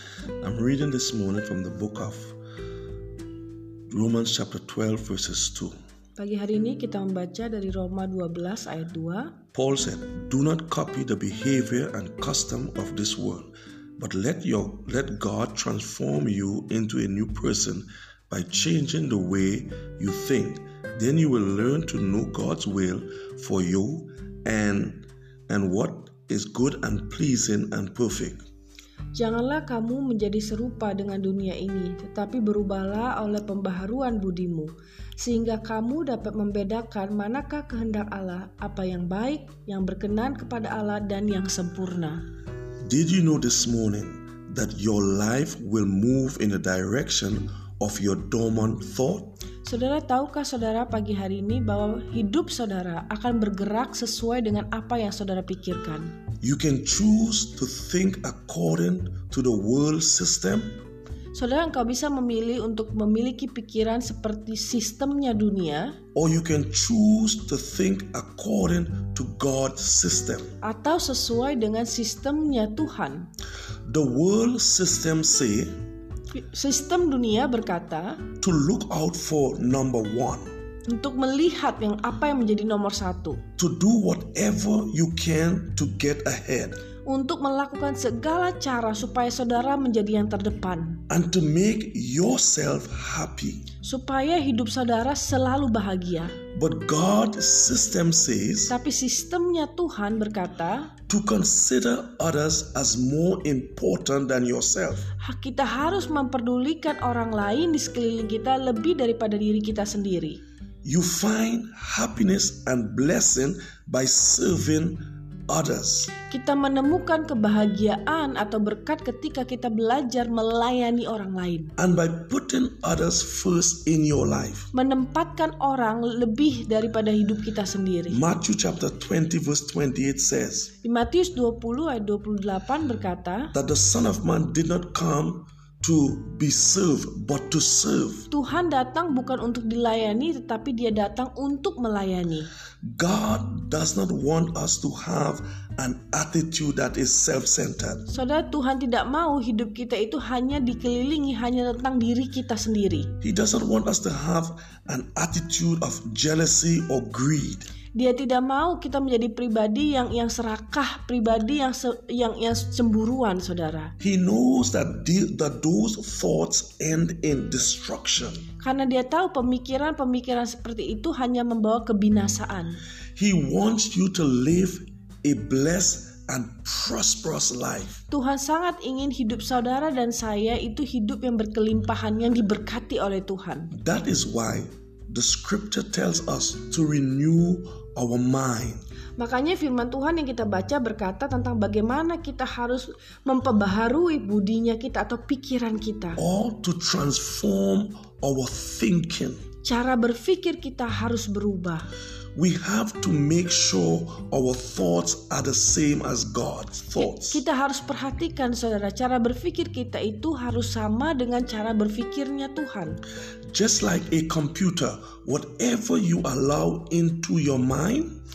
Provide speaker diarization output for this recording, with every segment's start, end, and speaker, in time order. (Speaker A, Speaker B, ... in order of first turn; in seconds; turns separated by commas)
Speaker A: 0.4-2.4, Speaker A: 3.9-5.8, Speaker B: 6.2-9.4, Speaker A: 9.5-28.4, Speaker B: 29.1-42.2, Speaker A: 42.8-49.4, Speaker B: 49.6-56.1, Speaker A: 56.4-60.8, Speaker B: 61.3-66.0, Speaker A: 66.2-70.5, Speaker B: 70.6-73.3, Speaker A: 73.9-75.8, Speaker B: 76.3-78.2, Speaker A: 78.4-80.5, Speaker B: 80.9-83.4, Speaker A: 83.6-86.8, Speaker B: 87.1-91.0, Speaker A: 91.1-93.7, Speaker B: 93.8-96.3, Speaker A: 96.5-98.8, Speaker B: 98.7-100.9, Speaker A: 101.1-105.1, Speaker B: 105.2-110.4, Speaker A: 110.8-116.1, Speaker B: 116.3-121.7, Speaker A: 121.8-124.7, Speaker B: 124.7-128.2, Speaker A: 128.1-130.7, Speaker B: 130.8-133.5, Speaker A: 133.5-138.3, Speaker B: 138.3-142.5, Speaker A: 142.8-148.1, Speaker B: 148.1-153.1, Speaker A: 153.2-157.7, Speaker B: 157.9-163.9, Speaker A: 164.0-168.4, Speaker B: 168.6-172.8, Speaker A: 173.2-178.0, Speaker B: 178.1-183.7, Speaker A: 183.7-188.8, Speaker B: 189.2-196.2, Speaker A: 196.2-199.4, Speaker B: 199.6-201.9, Speaker A: 202.4-207.4, Speaker B: 207.0-213.0, Speaker A: 213.5-218.1